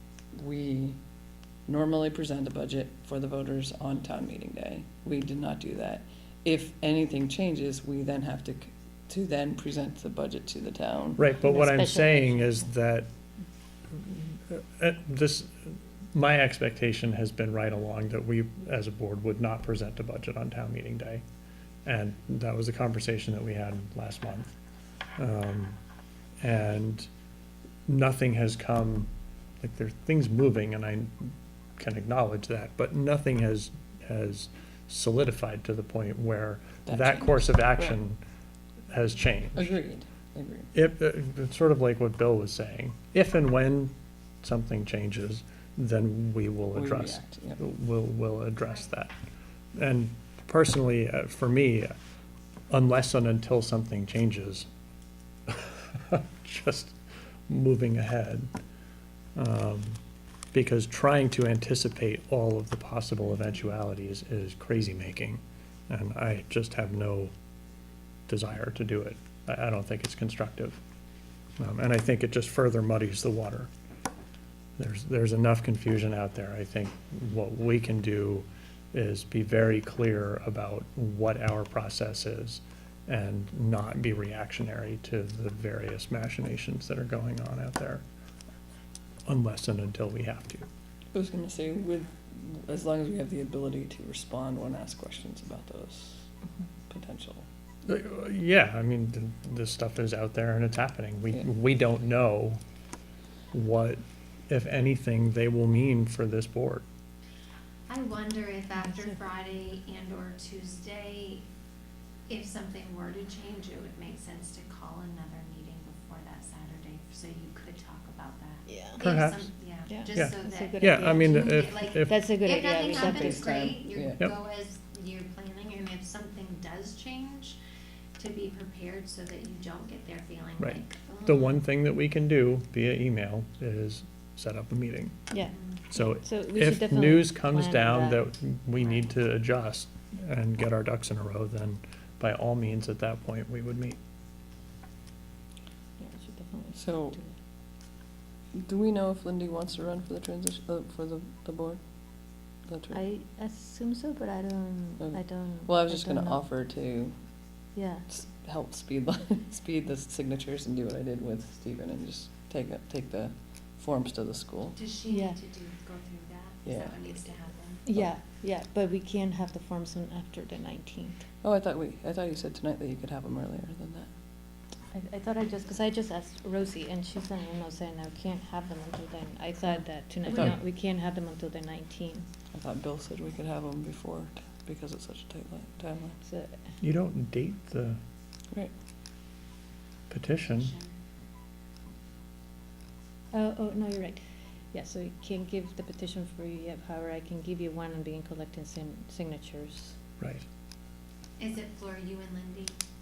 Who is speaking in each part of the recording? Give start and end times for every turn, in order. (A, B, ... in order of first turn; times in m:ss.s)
0:00.3-0:01.0 A
0:01.7-0:11.2 A
0:11.2-0:13.1 B
0:11.4-0:12.6 C
0:13.9-0:21.2 B
0:21.8-0:24.5 B
0:25.2-0:25.8 B
0:26.4-0:27.1 B
0:27.8-0:38.2 B
0:36.8-0:38.0 A
0:38.9-0:39.7 B
0:39.5-0:40.7 A
0:40.7-0:49.1 B
0:46.7-0:47.6 A
0:49.7-0:51.9 B
0:52.7-0:54.7 B
0:55.5-0:57.0 B
0:57.5-0:58.5 B
0:59.4-1:00.0 B
1:00.5-1:07.3 B
1:08.3-1:10.8 B
1:11.6-1:13.7 B
1:14.8-1:28.0 B
1:29.3-1:30.6 B
1:31.1-1:36.3 A
1:36.9-1:37.5 A
1:37.8-1:42.6 B
1:43.5-1:46.8 B
1:47.9-1:51.4 D
1:52.3-2:07.6 D
1:58.7-1:59.0 C
1:59.0-1:59.5 B
1:59.9-2:03.7 C
2:00.1-2:02.2 B
2:02.9-2:04.2 A
2:08.2-2:11.6 D
2:10.6-2:15.2 B
2:15.3-2:18.2 C
2:15.5-2:15.8 D
2:15.9-2:24.0 B
2:26.0-2:27.3 C
2:26.7-2:27.2 A
2:28.5-2:31.8 A
2:32.6-2:33.0 A
2:32.9-2:36.4 C
2:35.0-2:37.1 A
2:37.7-2:38.1 C
2:38.1-2:44.8 A
2:44.7-2:47.8 D
2:45.1-2:45.4 C
2:46.6-2:47.0 A
2:47.8-2:51.2 C
2:51.4-2:54.1 A
2:54.9-3:02.3 C
3:00.2-3:00.6 A
3:02.5-3:06.2 A
3:06.2-3:06.6 C
3:06.8-3:08.0 B
3:10.1-3:10.7 B
3:10.5-3:10.9 D
3:13.3-3:14.2 C
3:14.7-3:20.0 C
3:21.4-3:22.7 D